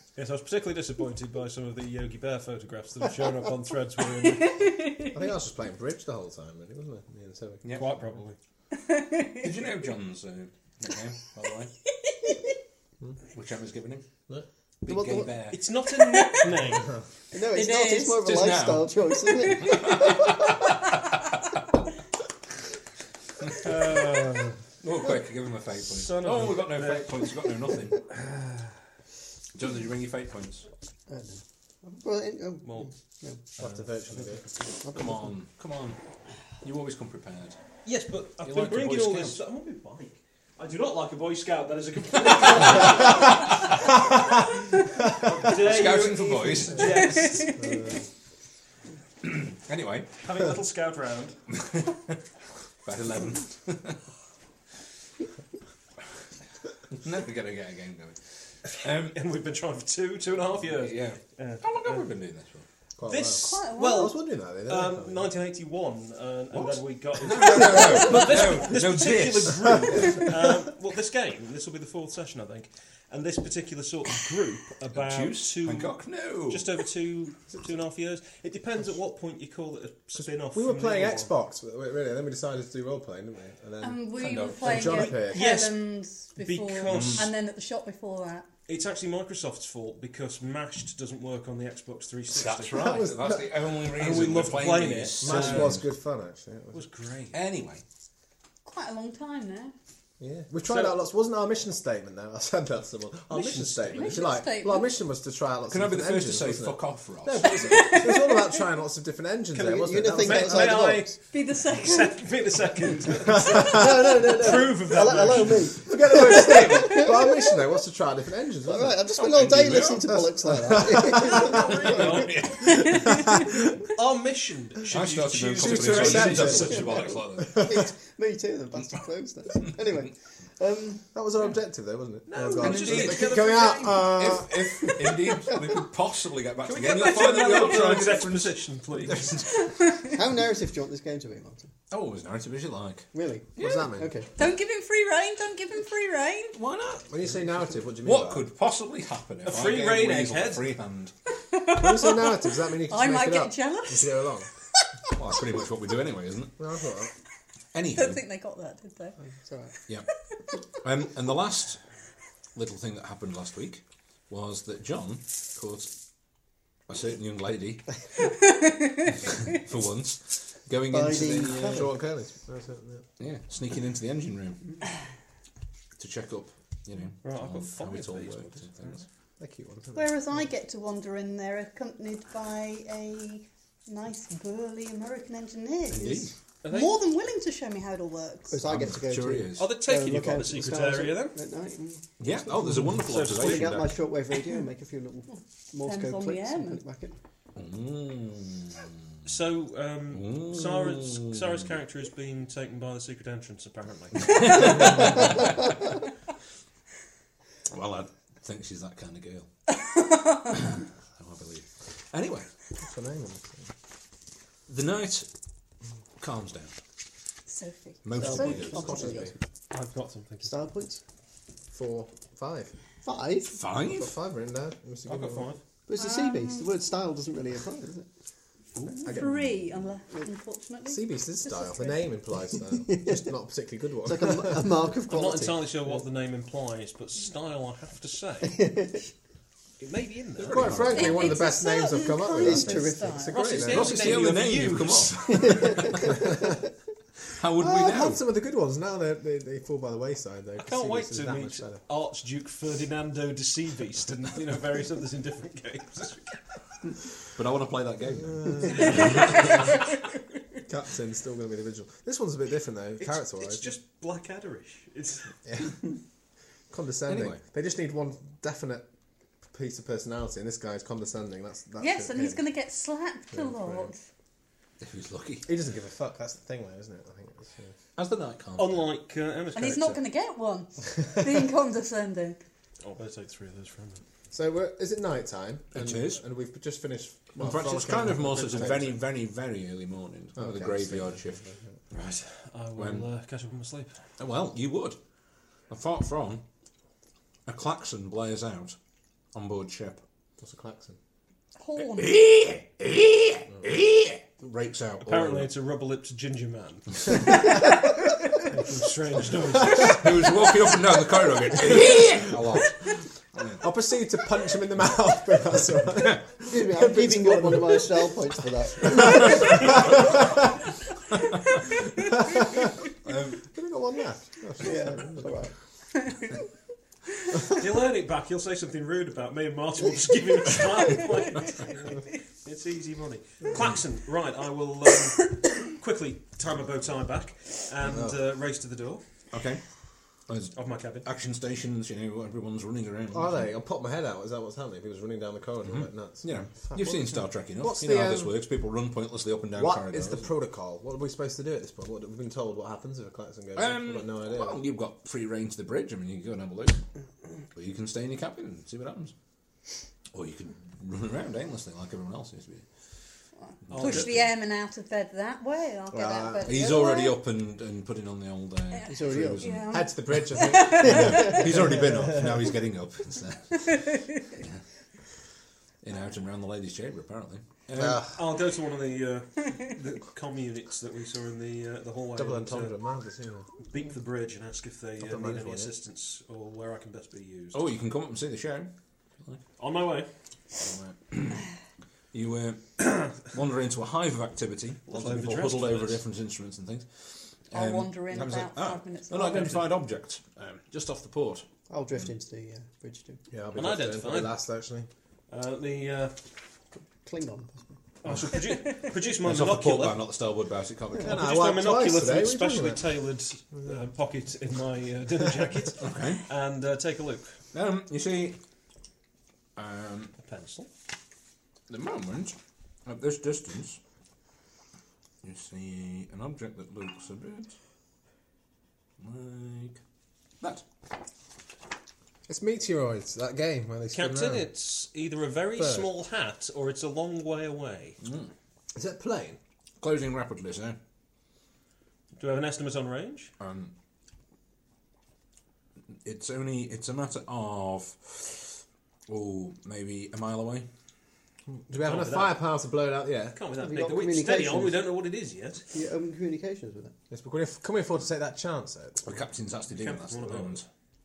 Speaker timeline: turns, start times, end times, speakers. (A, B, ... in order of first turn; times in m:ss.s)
0:00.2-0:04.7 A
0:05.0-0:07.6 B
0:07.6-0:07.9 C
0:07.7-0:08.4 A
0:08.8-0:09.4 D
0:09.3-0:11.7 C
0:13.3-0:14.1 C
0:14.8-0:15.6 C
0:14.8-0:15.3 E
0:15.5-0:16.9 A
0:16.2-0:16.5 D
0:17.3-0:20.6 E
0:17.4-0:18.2 D
0:18.2-0:21.1 C
0:19.4-0:19.8 D
0:23.5-0:24.6 A
0:24.8-0:28.1 C
0:25.9-0:27.2 A
0:29.5-0:30.6 C
0:31.1-0:33.4 E
0:32.6-0:32.9 A
0:33.6-0:34.5 B
0:33.6-0:34.4 A
0:34.8-0:35.3 E
0:34.8-0:36.0 C
0:36.6-0:37.6 C
0:37.8-0:43.4 A
0:38.4-0:39.4 C
0:42.8-0:43.4 C
0:45.1-0:47.6 A
0:45.4-0:47.2 C
0:47.6-0:47.9 B
0:49.2-0:50.1 C
0:50.2-0:51.4 A
0:51.5-0:52.2 C
0:52.8-0:54.0 C
0:56.9-0:59.2 C
0:59.0-1:02.1 A
1:00.7-1:02.6 C
1:03.0-1:05.3 B
1:03.0-1:21.3 A
1:03.3-1:04.2 D
1:06.5-1:10.2 C
1:14.9-1:16.7 C
1:20.2-1:25.5 B
1:23.8-1:28.5 D
1:24.2-1:25.2 C
1:25.3-1:25.8 A
1:26.4-1:27.3 A
1:26.9-1:27.3 C
1:28.7-1:33.1 A
1:32.3-1:35.8 C
1:33.8-1:35.8 A
1:35.2-1:36.8 B
1:36.7-1:37.4 A
1:37.3-1:37.8 C
1:38.6-1:39.7 D
1:40.2-1:51.0 B
1:40.6-1:41.0 A
1:43.3-1:44.2 A
1:43.9-1:44.9 D
1:45.7-1:47.8 C
1:47.6-1:48.5 D
1:49.5-1:55.7 A
1:49.7-1:51.2 E
1:51.2-1:52.2 D
1:53.6-1:54.0 B
1:53.6-1:57.5 E
1:55.8-1:59.0 B
1:58.7-2:02.0 E
1:59.2-2:00.3 C
2:00.4-2:01.4 B
2:01.0-2:02.5 A
2:01.9-2:02.6 C
2:02.9-2:03.6 B
2:03.9-2:07.0 A
2:04.9-2:07.7 C
2:05.5-2:06.9 B
2:07.4-2:11.0 E
2:11.1-2:15.1 B
2:12.3-2:13.9 A
2:12.6-2:20.0 C
2:16.6-2:19.4 A
2:19.7-2:20.1 D
2:20.1-2:21.7 E
2:21.9-2:23.9 C
2:23.1-2:24.3 E
2:23.6-2:24.1 B
2:24.4-2:26.6 D
2:26.5-2:27.1 C
2:27.1-2:28.4 B
2:28.0-2:31.1 C
2:29.4-2:30.7 A
2:31.5-2:34.2 D
2:31.7-2:34.5 B
2:35.1-2:36.5 C
2:36.6-2:37.1 B
2:37.7-2:38.2 C
2:37.9-2:39.2 D
2:39.4-2:39.7 E
2:40.8-2:41.8 C
2:42.5-2:45.9 C
2:46.9-2:48.0 C
2:49.1-2:51.9 C
2:50.9-2:51.9 E
2:51.7-2:53.0 B
2:53.2-2:54.8 C
2:56.0-2:59.0 C
2:57.2-2:59.0 A
2:59.4-3:00.3 B
2:59.9-3:08.7 D
3:05.9-3:06.3 C
3:06.6-3:07.0 A
3:08.5-3:17.2 E
3:08.6-3:09.7 C
3:09.6-3:11.4 A
3:12.2-3:14.1 C
3:13.0-3:13.7 A
3:15.8-3:16.8 D
3:17.6-3:18.8 C
3:19.2-3:25.1 A
3:20.1-3:21.6 C
3:24.2-3:25.4 C
3:27.7-3:29.5 C
3:30.3-3:32.5 C
3:32.8-3:33.7 B
3:34.7-3:35.3 C
3:36.2-3:36.8 C
3:37.5-3:39.1 D
3:38.0-3:38.9 C
3:38.2-3:39.3 E
3:38.3-3:39.3 B
3:39.7-3:40.6 A
3:40.4-3:41.0 E
3:41.7-3:42.7 B
3:43.0-3:43.6 E
3:43.5-3:44.1 C
3:43.8-3:45.5 B
3:45.0-3:45.6 A
3:45.9-3:48.0 E
3:46.0-3:46.7 D
3:48.8-3:49.2 C
3:48.8-3:52.0 D
3:48.9-3:49.6 B
3:50.8-3:54.8 B
3:52.7-3:53.3 E
3:54.0-3:55.8 E
3:55.1-3:58.6 A
3:58.4-3:59.1 E
3:59.8-4:01.0 A
4:00.4-4:01.4 C
4:00.4-4:04.1 B
4:00.8-4:03.4 D
4:02.3-4:03.2 E
4:03.3-4:05.5 A
4:03.7-4:06.2 C
4:05.2-4:06.5 E
4:07.4-4:08.2 C
4:07.6-4:11.8 B
4:10.6-4:16.4 A
4:17.3-4:19.6 C
4:18.2-4:19.0 B
4:20.7-4:23.7 B
4:23.0-4:25.3 A
4:26.7-4:28.8 B
4:27.1-4:27.4 C
4:29.5-4:32.4 B
4:31.8-4:34.0 D
4:33.3-4:33.9 B
4:34.8-4:35.5 C
4:35.4-4:37.7 B
4:38.0-4:38.8 C
4:38.6-4:40.0 A
4:39.5-4:42.4 D
4:42.8-4:44.0 A
4:44.3-4:49.0 B
4:45.7-4:46.2 C
4:47.4-4:51.4 C
4:48.2-4:48.9 A
4:50.4-4:51.6 B
4:51.9-4:54.0 A
4:52.8-4:53.0 C
4:54.2-4:55.0 C
4:55.7-4:56.4 C
4:57.5-4:58.8 C
4:59.3-5:00.0 C
5:00.4-5:01.0 B
5:01.6-5:02.2 D
5:01.9-5:05.5 C
5:05.0-5:07.5 A
5:08.4-5:10.2 A
5:09.6-5:12.8 C
5:13.4-5:13.6 C
5:13.6-5:18.2 B
5:16.5-5:20.0 E
5:18.8-5:19.5 B
5:23.0-5:23.4 C
5:23.5-5:25.4 B
5:24.6-5:25.5 E
5:27.5-5:39.0 A
5:39.3-5:39.6 C
5:40.3-5:43.5 C
5:40.5-5:41.0 A
5:43.1-5:48.3 B
5:45.6-5:50.3 C
5:49.6-5:54.6 B
5:53.5-5:56.8 C
5:57.5-5:59.1 C
6:00.1-6:02.6 C
6:03.6-6:04.3 C
6:03.7-6:04.2 A
6:03.7-6:07.2 D
6:05.9-6:06.5 B
6:06.4-6:09.8 C
6:08.7-6:11.4 D
6:08.9-6:09.4 E
6:09.7-6:11.4 B
6:10.6-6:14.6 C
6:11.0-6:11.7 E
6:13.6-6:14.4 D
6:15.8-6:18.1 C
6:17.8-6:18.1 B
6:18.1-6:22.8 A
6:22.2-6:23.5 B
6:23.7-6:27.6 A
6:25.0-6:25.7 B
6:27.5-6:28.7 C
6:29.6-6:30.1 A
6:30.5-6:31.4 C
6:32.1-6:42.1 C
6:34.9-6:36.0 A
6:37.5-6:39.6 D
6:39.3-6:39.6 A
6:41.7-6:43.2 E
6:43.3-6:44.9 B
6:43.5-6:44.3 A
6:45.3-6:46.2 A
6:47.0-6:47.7 E
6:48.0-6:50.0 A
6:49.2-6:51.3 C
6:51.0-6:52.8 B
6:51.0-6:57.4 A
6:55.8-6:56.2 C
6:57.5-6:58.4 C
6:59.6-7:00.1 C
7:00.2-7:00.7 A
7:01.7-7:02.3 C
7:02.8-7:03.8 C
7:05.2-7:07.5 C
7:09.0-7:09.8 C
7:12.3-7:14.5 B
7:13.9-7:18.0 A
7:15.6-7:15.9 B
7:18.0-7:18.3 C
7:18.7-7:19.4 B
7:19.8-7:20.8 C
7:22.2-7:23.3 A
7:23.4-7:23.7 C
7:26.0-7:30.6 C
7:31.5-7:33.4 B
7:31.8-7:32.4 A
7:33.3-7:35.7 A
7:33.6-7:34.8 E
7:35.7-7:36.9 E
7:37.1-7:39.2 B
7:39.0-7:40.6 C
7:39.7-7:40.6 A